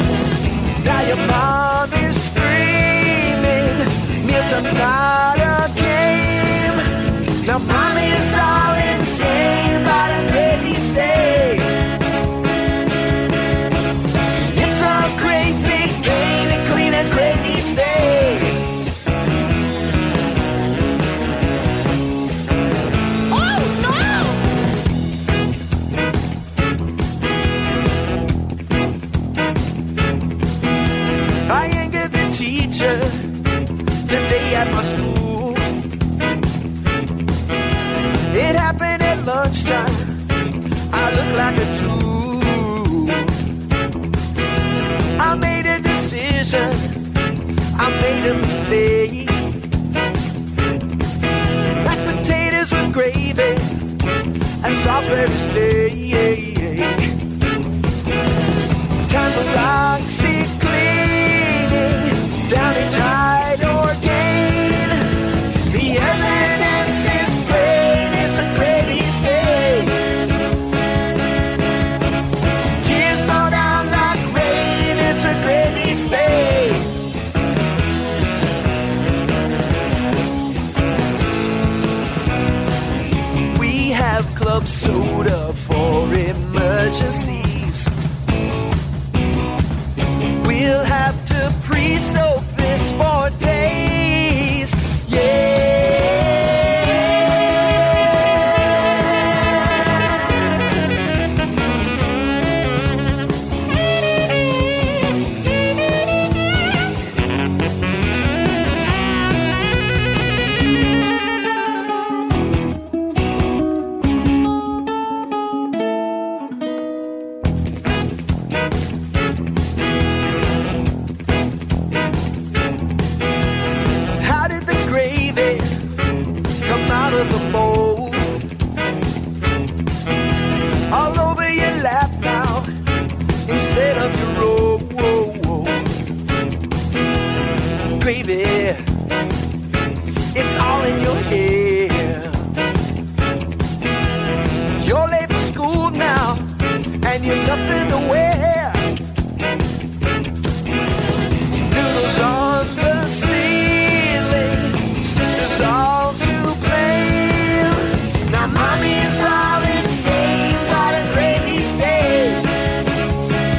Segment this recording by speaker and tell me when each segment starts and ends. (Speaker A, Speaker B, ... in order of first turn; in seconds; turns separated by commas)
Speaker A: 0.8-6.8, Speaker A: 7.4-11.8, Speaker A: 14.5-18.6, Speaker A: 23.3-24.4, Speaker A: 31.5-33.3, Speaker A: 34.1-35.7, Speaker A: 38.3-40.2, Speaker A: 40.9-43.4, Speaker A: 45.2-47.0, Speaker A: 47.8-49.5, Speaker A: 51.8-53.8, Speaker A: 54.6-57.1, Speaker A: 59.1-65.1, Speaker A: 65.7-70.0, Speaker A: 72.8-76.9, Speaker A: 83.5-87.9, Speaker A: 90.4-97.8, Speaker A: 124.2-125.8, Speaker A: 126.6-128.4, Speaker A: 130.9-132.7, Speaker A: 133.5-135.9, Speaker A: 138.0-138.8, Speaker A: 140.3-142.5, Speaker A: 144.8-146.5, Speaker A: 147.0-148.9, Speaker A: 151.7-162.5